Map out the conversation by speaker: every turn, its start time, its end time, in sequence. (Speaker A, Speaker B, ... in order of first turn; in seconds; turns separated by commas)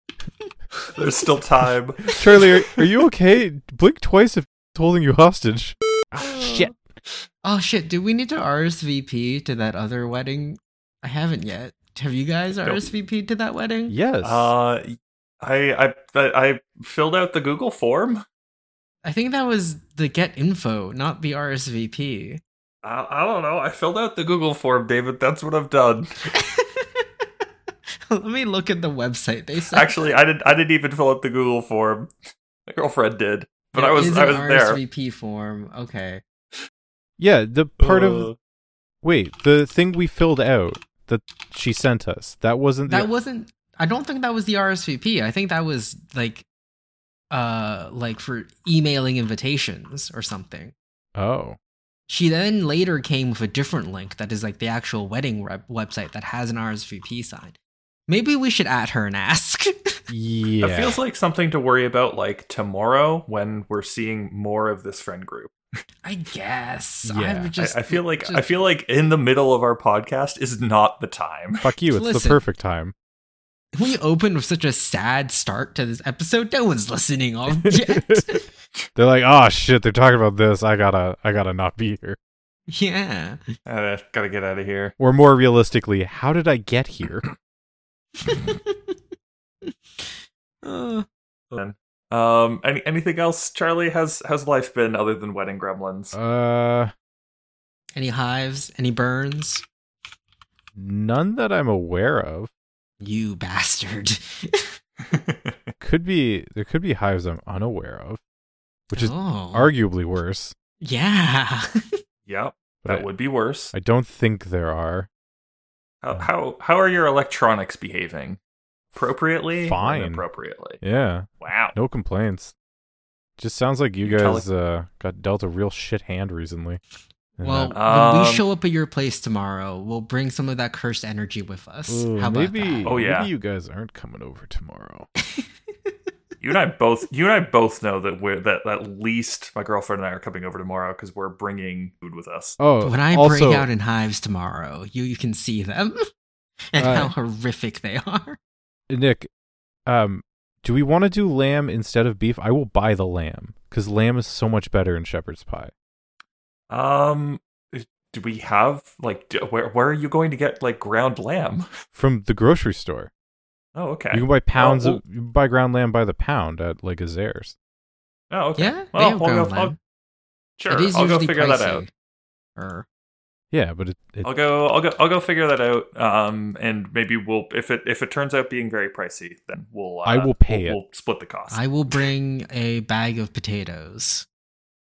Speaker A: 0.8-2.5, Speaker B: 2.2-6.7, Speaker C: 7.4-13.9, Speaker B: 13.9-14.5, Speaker A: 14.2-18.2, Speaker C: 19.0-22.4, Speaker A: 22.8-26.1, Speaker C: 26.3-27.0, Speaker C: 28.1-29.9, Speaker A: 29.7-32.1, Speaker A: 32.7-34.8, Speaker C: 33.7-36.2, Speaker B: 37.2-38.3, Speaker A: 37.8-38.3, Speaker B: 39.0-43.1, Speaker C: 42.9-46.4, Speaker C: 47.3-50.7, Speaker B: 51.1-51.6, Speaker C: 52.1-57.5, Speaker C: 58.1-59.7, Speaker B: 60.1-61.0, Speaker A: 60.6-65.5, Speaker C: 66.0-68.7, Speaker B: 67.0-67.5, Speaker A: 67.6-71.7, Speaker B: 71.6-72.9, Speaker C: 71.9-72.4, Speaker C: 73.7-78.5, Speaker B: 77.6-78.2, Speaker B: 79.0-82.2, Speaker C: 82.7-83.4, Speaker A: 83.7-84.9, Speaker B: 85.0-87.2, Speaker C: 88.2-89.0, Speaker C: 89.6-91.0, Speaker A: 91.5-96.2, Speaker B: 96.1-96.9, Speaker C: 97.9-99.6, Speaker B: 100.8-102.5, Speaker C: 103.0-104.7, Speaker A: 105.1-105.6, Speaker B: 105.8-108.2, Speaker B: 108.9-110.5, Speaker C: 108.9-109.7, Speaker C: 110.8-111.8, Speaker A: 112.3-113.7, Speaker B: 113.7-115.1, Speaker A: 116.0-118.4, Speaker A: 118.9-120.8, Speaker B: 119.6-120.2, Speaker B: 120.8-122.5, Speaker A: 121.4-121.7, Speaker B: 123.4-126.8, Speaker A: 124.0-124.5, Speaker B: 127.4-127.7, Speaker C: 127.4-132.9, Speaker A: 127.7-128.4, Speaker B: 131.9-135.1, Speaker A: 132.8-133.3, Speaker A: 136.4-142.6, Speaker B: 142.6-143.7, Speaker C: 142.8-146.0, Speaker C: 146.7-148.4, Speaker B: 146.8-147.1, Speaker B: 148.9-149.3, Speaker B: 149.8-155.7, Speaker A: 156.7-161.7, Speaker B: 161.9-163.1, Speaker A: 163.7-165.0, Speaker B: 164.1-167.5, Speaker A: 168.3-169.7, Speaker C: 168.6-169.8, Speaker A: 170.6-171.8, Speaker C: 170.7-171.9, Speaker C: 172.6-172.8, Speaker B: 173.5-174.3, Speaker A: 174.2-182.0, Speaker B: 180.0-180.8, Speaker C: 181.5-184.2